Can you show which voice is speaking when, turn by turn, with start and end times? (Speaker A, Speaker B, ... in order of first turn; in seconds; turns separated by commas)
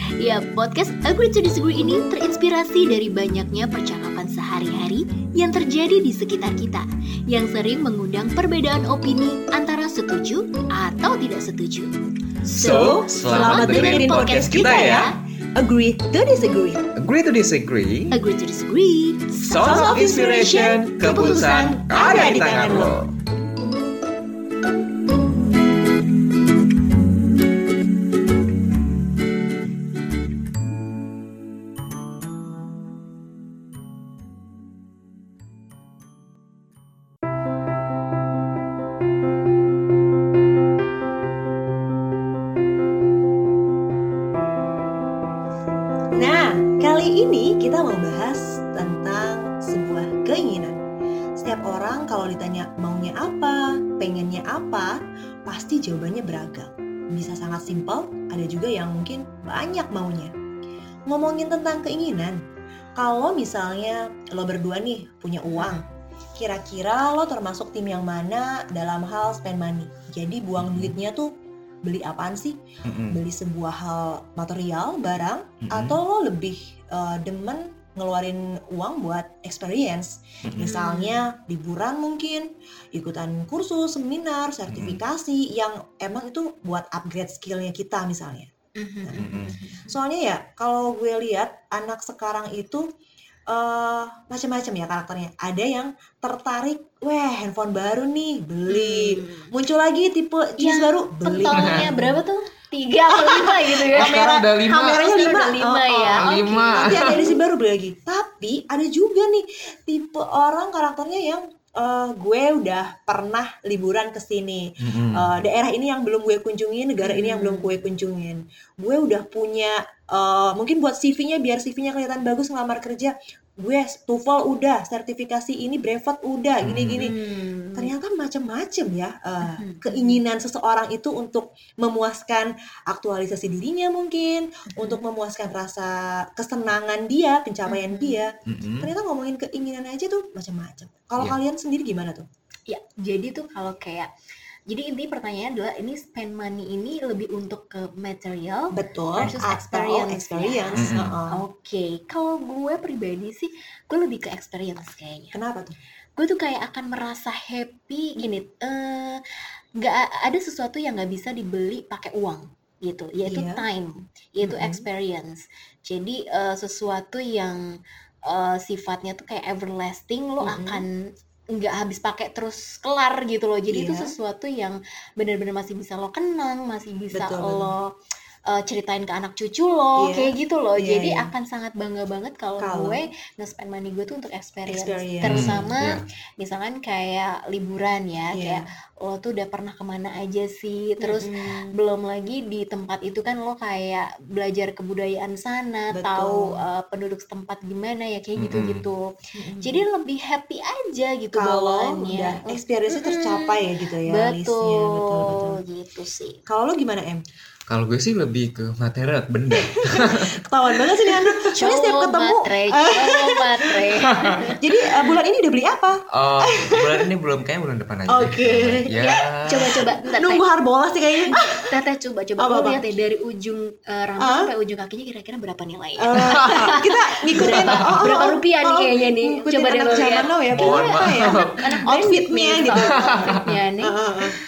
Speaker A: 0.2-11.9, Speaker A: 12.5-15.1, Speaker B: 12.5-15.1, Speaker C: 12.6-16.9, Speaker B: 16.9-18.1, Speaker A: 18.1-19.9, Speaker B: 19.3-23.1, Speaker C: 19.6-23.0, Speaker C: 46.1-50.8, Speaker C: 51.4-60.3, Speaker C: 61.1-62.4, Speaker C: 63.0-65.8, Speaker A: 65.5-65.9, Speaker C: 66.4-71.3, Speaker B: 70.6-70.9, Speaker C: 71.8-72.6, Speaker B: 72.8-73.2, Speaker C: 73.1-88.5, Speaker B: 75.6-76.0, Speaker B: 80.4-80.7, Speaker A: 80.6-81.2, Speaker B: 84.7-85.0, Speaker A: 88.8-89.9, Speaker C: 89.0-89.3, Speaker B: 89.2-89.5, Speaker C: 89.9-92.8, Speaker C: 93.5-102.2, Speaker A: 98.7-99.5, Speaker A: 100.6-104.2, Speaker B: 101.5-101.9, Speaker C: 103.1-127.2, Speaker B: 103.9-105.0, Speaker A: 104.8-107.3, Speaker B: 106.1-107.3, Speaker B: 114.8-115.3, Speaker A: 117.0-117.8, Speaker B: 126.6-127.0, Speaker A: 126.9-127.9, Speaker C: 127.7-142.2, Speaker A: 129.4-130.2, Speaker A: 134.7-135.0, Speaker A: 137.7-138.2, Speaker B: 138.4-138.9, Speaker A: 142.7-144.1, Speaker A: 144.7-155.4, Speaker C: 148.7-151.4, Speaker B: 149.2-149.6, Speaker B: 150.8-151.2, Speaker C: 155.3-155.7, Speaker A: 156.2-159.2, Speaker A: 159.8-167.6, Speaker C: 163.2-163.6, Speaker C: 164.4-164.8, Speaker A: 168.3-170.9, Speaker C: 170.4-170.8, Speaker A: 171.5-177.9, Speaker C: 173.7-174.1, Speaker C: 177.1-177.7, Speaker A: 178.5-199.0, Speaker C: 180.0-181.3, Speaker C: 182.6-183.0, Speaker C: 184.7-185.5, Speaker B: 185.2-186.0, Speaker C: 188.3-188.6, Speaker C: 191.0-191.7, Speaker C: 195.9-196.6, Speaker B: 198.4-198.8, Speaker C: 199.4-199.8, Speaker A: 199.6-206.4, Speaker C: 201.3-205.6, Speaker C: 206.5-207.2, Speaker B: 207.7-210.3, Speaker C: 209.6-213.8, Speaker B: 211.2-211.4, Speaker A: 211.6-214.5, Speaker B: 214.2-214.5, Speaker C: 214.6-217.0, Speaker B: 216.1-219.7, Speaker C: 218.1-218.9, Speaker A: 218.9-220.4, Speaker C: 219.7-221.6, Speaker A: 221.2-226.8, Speaker C: 222.4-222.8, Speaker C: 224.2-224.5, Speaker C: 226.0-234.3, Speaker B: 226.3-226.6, Speaker A: 227.3-233.9, Speaker B: 227.4-227.9, Speaker B: 230.5-231.9, Speaker B: 232.7-233.5